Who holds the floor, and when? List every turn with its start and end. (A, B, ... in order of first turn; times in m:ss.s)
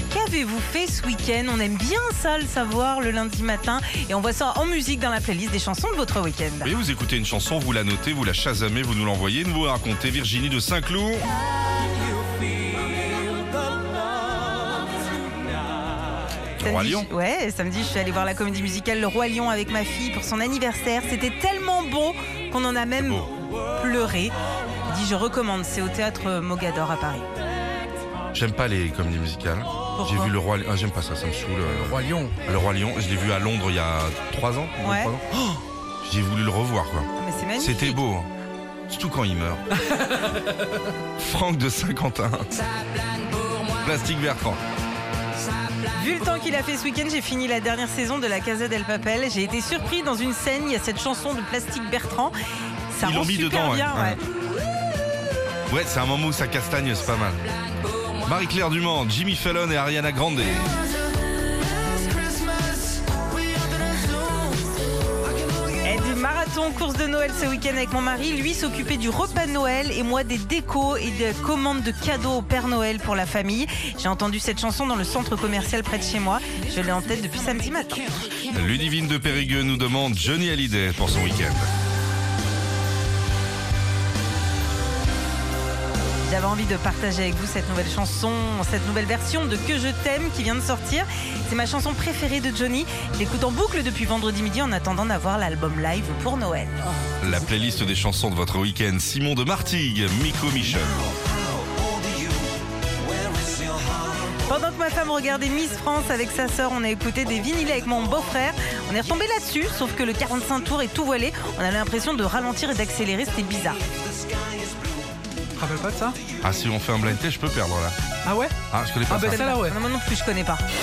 0:00.1-0:06.7 A
0:06.6-0:11.3 B
0:16.6-0:17.1 B
0:16.6-0:24.3 A
0:23.0-0:23.3 B
0:24.9-0:27.2 A
0:28.3-0:35.3 B
0:30.0-0:30.3 A
0:31.9-0:32.3 C
0:34.8-0:35.1 A
0:36.0-0:38.3 B
0:37.2-0:38.0 A
0:38.9-0:39.6 B
0:41.2-0:42.5 B
0:43.6-0:44.6 B
0:45.9-0:52.3 A
0:52.9-0:54.2 A
0:53.0-0:54.2 B
0:55.7-0:57.4 B
0:58.2-1:00.7 B
1:05.8-1:18.1 A
1:18.5-1:21.7 B
1:26.2-1:36.8 A
1:37.2-1:41.0 B
1:44.4-1:53.8 A
1:55.6-1:56.2 C
1:56.4-1:58.0 B
1:58.2-1:58.6 C
1:58.7-1:59.4 B
1:59.1-1:59.8 C
1:59.2-2:00.6 A